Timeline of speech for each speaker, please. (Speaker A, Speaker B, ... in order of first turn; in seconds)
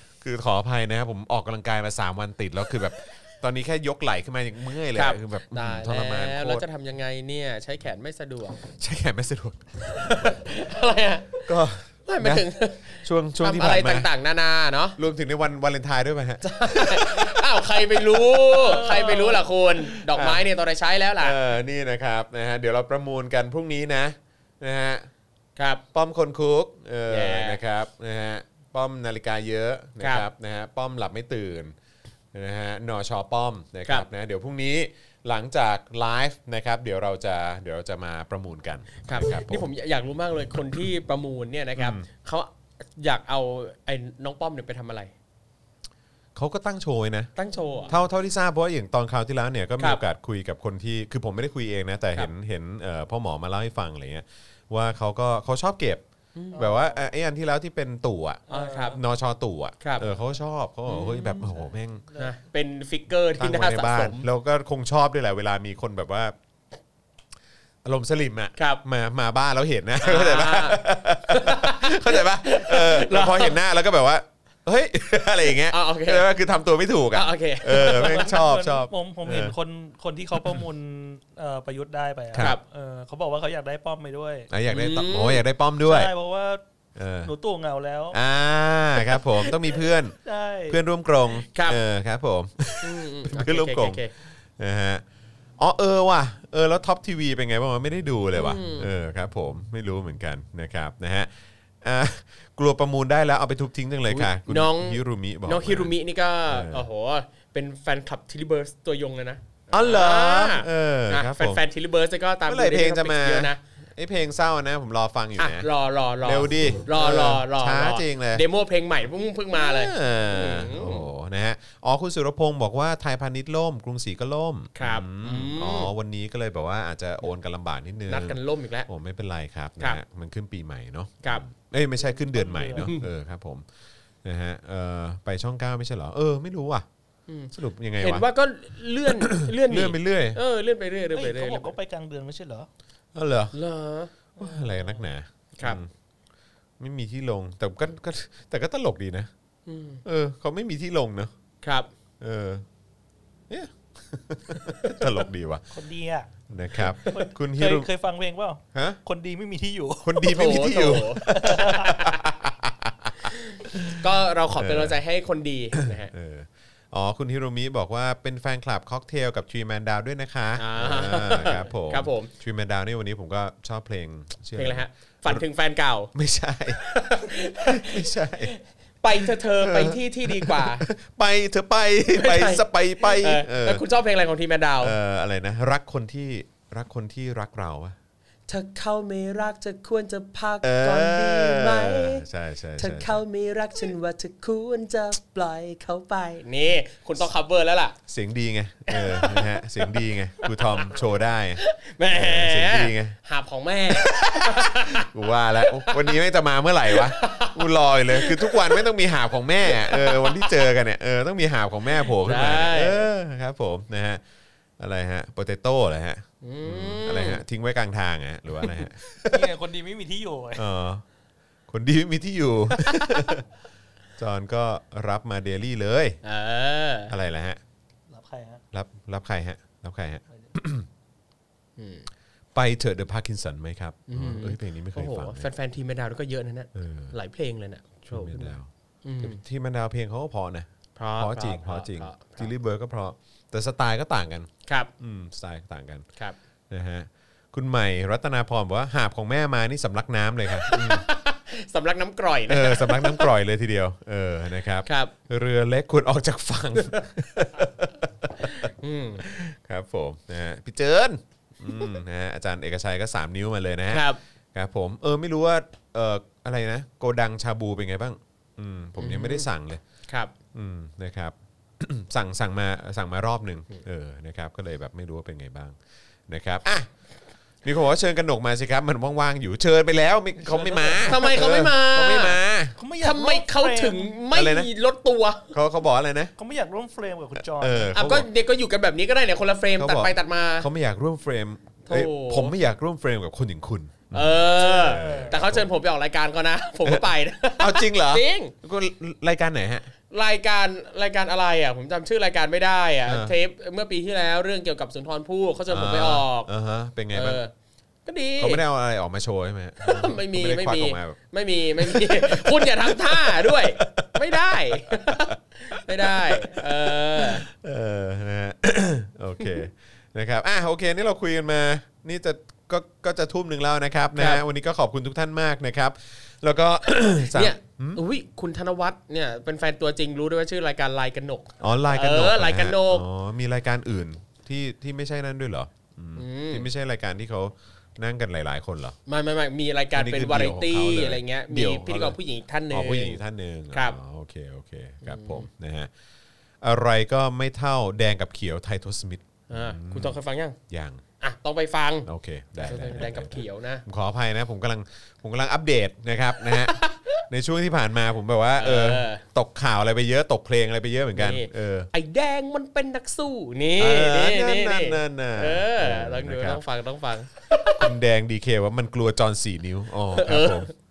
Speaker A: 0.2-6.6, 8.7-10.4, 11.4-14.1, 14.9-20.4, 21.2-25.1, 25.9-31.7, 32.3-39.7, 41.8-42.0, 46.3-47.3, 47.9-62.0, 63.4-66.3, 67.8-79.6, 80.3-80.6, 84.5-86.1, 87.0-87.3, 88.1-90.2, 90.7-95.0, 95.6-105.9, 106.5-106.9, 109.7-111.6, 112.5-115.7, 116.2-118.4, 119.5-133.7, 134.2-136.8, 137.5-138.3, 139.1-140.4, 143.1-143.6, 144.4-145.9, 146.8-149.3, 150.0-151.3, 152.2-152.6, 153.5-155.7, 156.5-157.9, 158.7-159.0, 160.0-164.0, 164.5-165.0, 165.8-175.4, 176.1-176.8, 177.6-178.5, 179.2-183.8, 184.8-187.9, 190.6-193.2, 198.0-201.6, 202.1-203.2, 203.9-214.2, 214.8-219.5, 220.5-221.0, 221.7-223.4, 224.2-226.2, 227.1-227.6, 228.7-230.9, 232.5-235.5, 236.7-237.1, 238.0-238.7, 239.2-246.0, 246.7-251.0, 252.5-258.7, 259.2-269.8, 270.5-275.8, 276.3-276.9, 277.6-282.8, 284.3-284.7, 285.5-286.3, 287.4-288.3, 289.8-295.7, 296.8-299.9, 303.1-303.3, 305.7-307.4, 308.4-311.2, 311.8-328.0, 331.6-339.0, 339.9-342.2, 342.7-345.9, 346.6-350.2, 350.7-351.0, 352.1-361.9, 363.8-366.6, 367.7-370.7
Speaker B: 4.9-8.6, 9.9-11.5, 12.1-15.0, 16.4-21.4, 25.6-25.8, 27.1-27.6, 30.0-30.2, 39.0-45.1, 47.4-48.0, 56.3-56.6, 58.5-59.0, 59.8-60.0, 60.9-61.5, 62.2-64.2, 68.6-68.8, 70.0-73.6, 75.7-76.2, 77.1-78.3, 84.7-85.4, 91.5-91.8, 92.8-94.1, 98.3-98.9, 104.1-113.6, 115.4-121.1, 124.8-125.9, 128.1-128.9, 132.8-133.1, 137.3-141.7, 143.5-144.1, 149.7-150.0, 151.6-151.9, 154.5-155.0, 160.2-162.2, 163.2-166.1, 170.6-172.3, 174.6-176.1, 176.8-180.8, 182.2-184.9, 188.5-192.2, 192.8-198.0, 198.9-201.0, 201.6-205.1, 205.6-206.2, 206.9-208.8, 209.6-210.7, 212.0-213.0, 216.4-217.4, 226.2-227.1, 231.8-232.1, 234.1-239.4, 240.9-242.5, 250.6-253.3, 254.8-255.1, 258.4-259.2, 263.9-264.2, 269.0-269.5, 281.0-282.4, 283.0-285.5, 287.9-290.7, 291.9-292.5, 294.1-298.5, 300.1-306.5, 307.1-307.5, 308.1-308.6, 309.8-317.4, 324.1-324.4, 327.3-333.0, 336.1-336.7, 339.1-343.2, 343.7-344.0, 345.0-345.5, 349.5-350.6, 351.2-352.1, 352.6-353.8, 356.5-357.2, 358.6-359.2, 361.1-367.9, 370.1-370.7
Speaker C: 18.6-19.4, 56.5-57.0, 58.5-59.0, 77.7-84.5, 85.8-86.6, 87.2-88.2, 90.2-90.8, 132.1-132.9, 141.1-142.7, 144.4-145.0, 155.7-162.0, 219.3-220.7, 228.1-228.6, 280.4-281.3, 282.8-284.1, 286.4-287.9, 294.6-295.4